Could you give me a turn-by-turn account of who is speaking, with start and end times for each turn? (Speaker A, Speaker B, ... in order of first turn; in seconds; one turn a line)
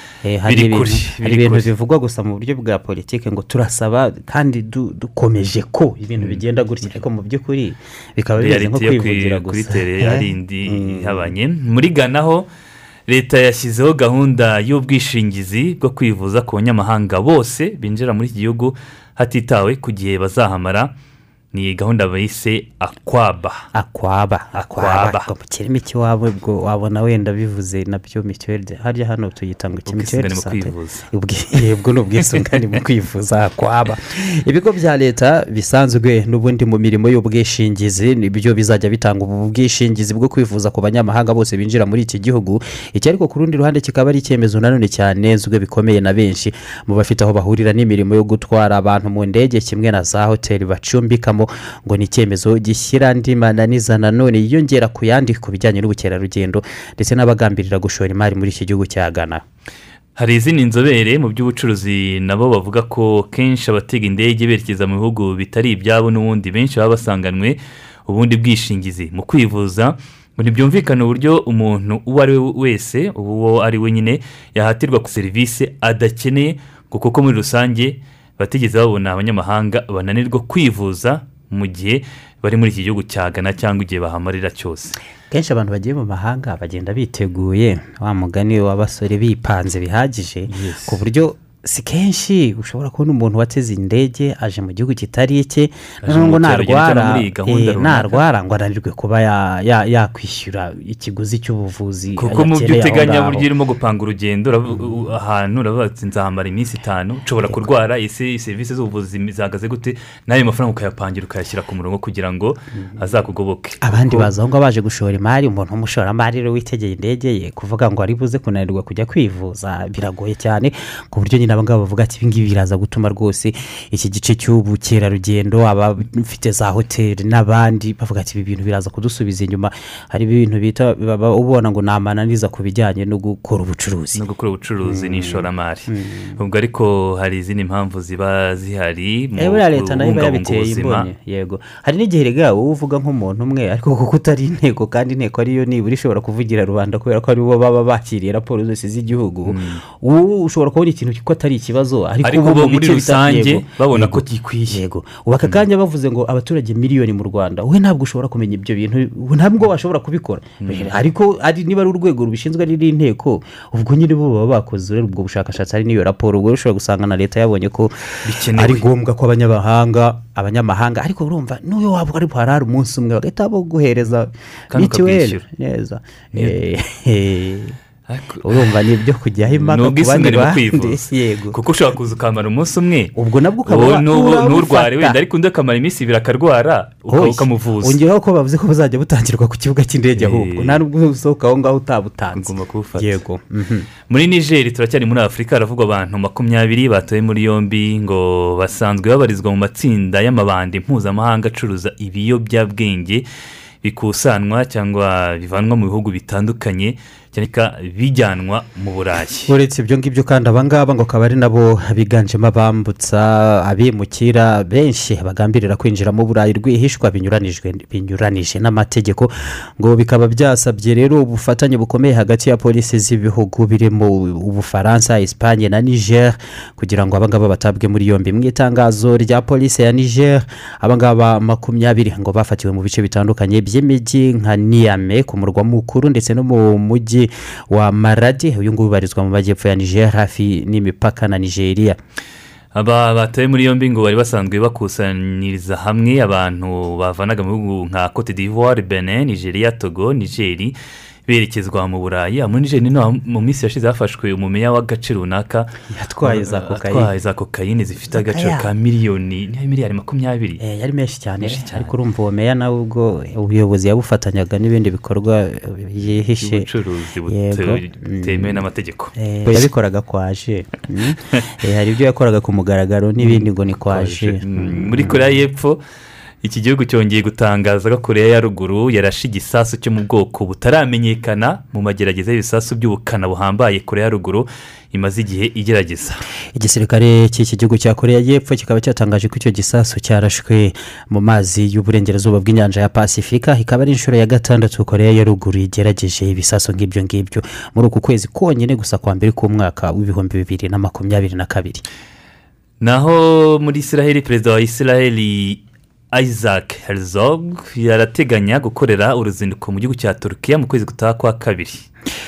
Speaker A: 0.2-11.3
Speaker B: 0.5-1.7
Speaker B: 6.2-6.9
Speaker B: 8.4-12.5
Speaker B: 13.1-20.9
Speaker B: 21.5-23.6
Speaker A: 23.7-59.4
Speaker B: 24.6-25.3
Speaker B: 29.9-31.1
Speaker B: 60.2-85.0
Speaker A: 85.3-103.5
Speaker B: 90.5-91.0
Speaker B: 96.0-98.2
Speaker B: 102.2-114.3
Speaker A: 113.8-134.2
Speaker B: 134.2-141.1
Speaker A: 134.8-136.4
Speaker A: 139.4-167.9
Speaker B: 149.5-149.8
Speaker B: 152.2-154.8
Speaker B: 160.6-160.9
Speaker B: 168.2-168.8
Speaker A: 168.5-177.8
Speaker B: 174.7-175.4
Speaker B: 178.1-178.7
Speaker A: 178.4-181.6
Speaker B: 179.5-183.1
Speaker A: 183.2-185.2
Speaker B: 183.7-188.0
Speaker A: 187.1-193.9
Speaker B: 190.2-190.8
Speaker B: 192.3-193.2
Speaker B: 194.1-203.2
Speaker B: 203.8-209.5
Speaker A: 209.5-242.0
Speaker B: 242.8-250.8
Speaker B: 251.3-255.7
Speaker A: 255.9-257.1
Speaker B: 256.2-260.6
Speaker A: 258.1-258.7
Speaker A: 260.6-266.7
Speaker B: 261.4-261.9
Speaker B: 266.4-269.7
Speaker A: 267.3-268.6
Speaker A: 269.2-275.4
Speaker B: 273.2-275.8
Speaker B: 276.4-286.2
Speaker A: 286.6-301.8
Speaker B: 302.8-305.6
Speaker B: 306.1-311.9